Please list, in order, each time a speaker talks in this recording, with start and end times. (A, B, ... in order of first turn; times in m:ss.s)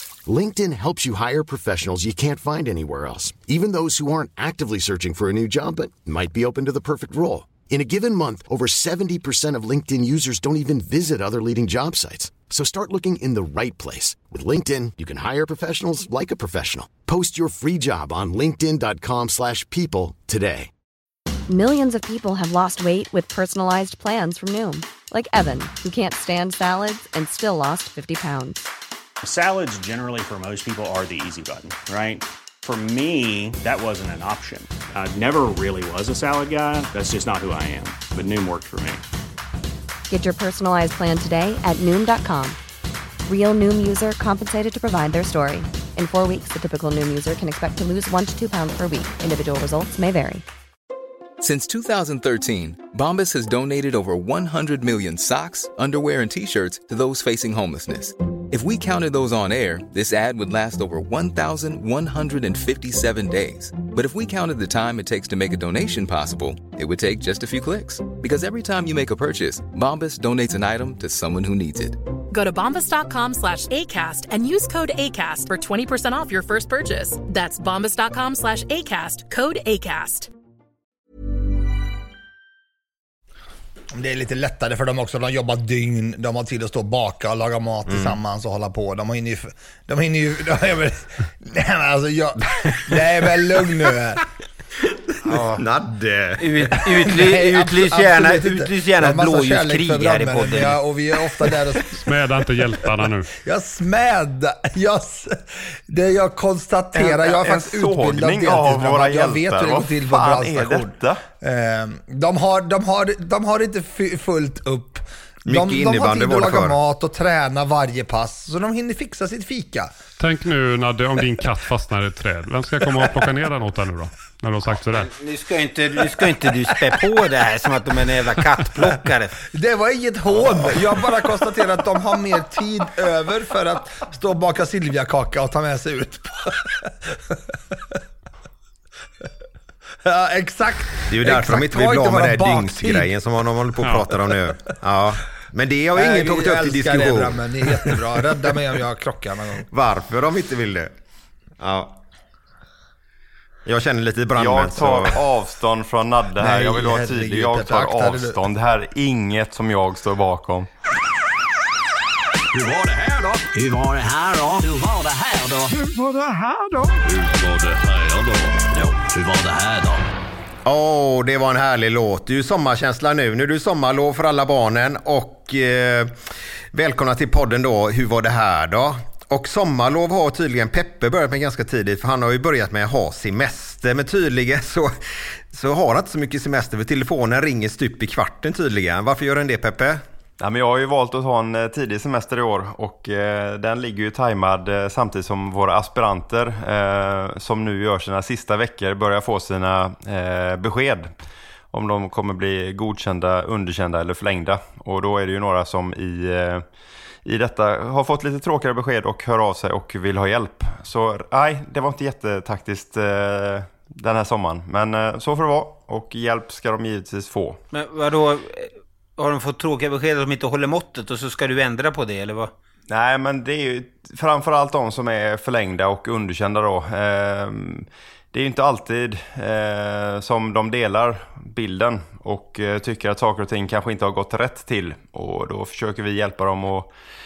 0:00.2-0:20.7 A
0:21.5-0:28.6 B
0:29.2-0:39.0 C
0:40.1-0:42.6 B
0:43.2-0:50.4 B
0:51.4-1:12.0 D
1:12.3-1:20.3 E
1:23.9-1:34.2 F
1:27.8-1:28.2 G
1:32.5-1:33.4 G
1:35.2-1:37.1 G
1:35.3-1:35.6 H
1:36.4-1:40.8 H
1:37.1-1:42.0 F
1:41.9-1:43.3 I
1:43.4-1:59.9 F
1:46.9-1:51.2 J
1:55.4-1:56.8 G
2:00.2-2:05.1 I
2:05.0-2:09.3 H
2:09.5-2:17.4 F
2:20.0-2:23.1 F
2:21.1-2:28.0 G
2:25.9-2:29.6 F
2:29.7-2:30.9 G
2:31.6-2:32.0 G
2:33.6-2:35.2 G
2:34.4-2:40.7 J
2:36.4-2:38.4 F
2:42.5-2:45.9 K
2:46.9-2:50.0 K
2:50.6-3:10.0 G
3:10.4-3:21.1 J
3:21.7-3:26.7 J
3:27.2-3:37.6 J
3:37.7-3:42.5 H
3:42.9-3:56.9 J